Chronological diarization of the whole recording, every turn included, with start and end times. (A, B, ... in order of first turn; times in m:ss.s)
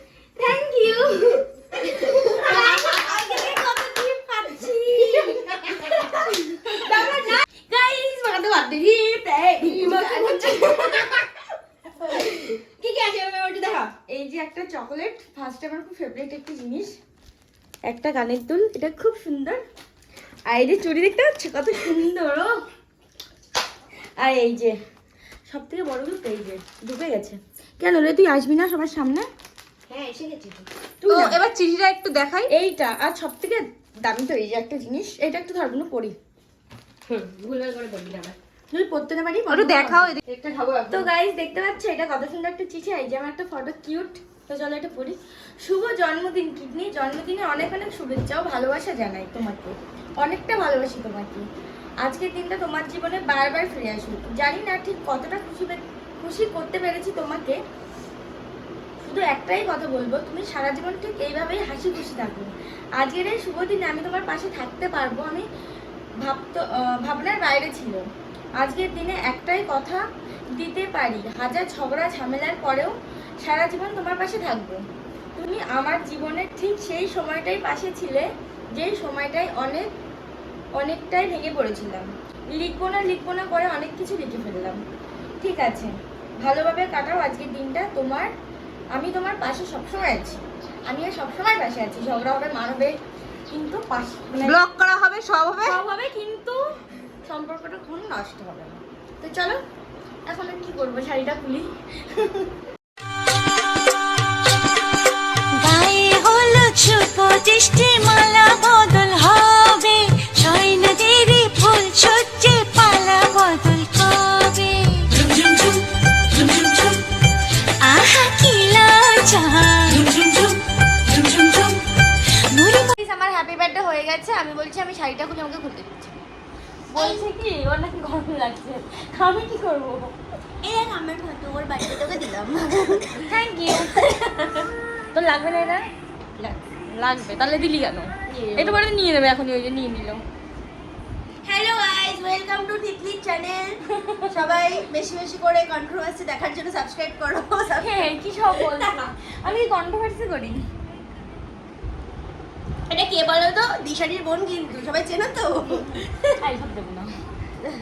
0:00.4-0:07.3 A
0:02.0-0:03.5 B
0:04.9-0:11.2 B
0:09.6-0:10.9 A
0:12.0-0:13.9 B
0:14.1-0:16.9 A
0:17.9-0:19.6 A
0:20.5-0:22.6 A
0:24.2-0:24.8 A
0:25.5-0:29.3 A
0:29.9-0:30.7 B
0:31.0-0:31.4 A
0:31.1-0:32.5 C
0:32.5-0:36.2 A
0:37.1-0:38.4 B
0:38.7-0:40.2 A
0:39.5-0:40.2 C
0:40.3-0:41.1 B
0:40.9-0:51.5 A
0:52.0-0:57.6 A
0:59.0-1:05.5 A
1:06.2-1:08.0 A
1:08.6-1:10.0 A
1:10.6-1:14.8 A
1:15.4-1:19.9 A
1:20.8-1:24.8 A
1:25.4-1:28.3 A
1:28.9-1:33.0 A
1:33.5-1:34.6 A
1:34.7-1:35.4 C
1:35.6-1:36.6 A
1:37.2-1:39.6 A
1:40.3-1:42.5 A
1:45.6-1:55.3 D
1:57.8-2:00.6 D
2:01.1-2:01.8 D
2:02.5-2:03.0 D
2:03.0-2:06.2 A
2:06.9-2:10.2 A
2:10.6-2:13.3 B
2:13.2-2:15.9 A
2:16.7-2:20.2 A
2:18.3-2:18.8 B
2:21.4-2:23.8 B
2:24.3-2:27.9 B
2:27.7-2:30.6 A
2:28.6-2:29.0 B
2:32.9-2:36.3 B
2:36.4-2:37.1 A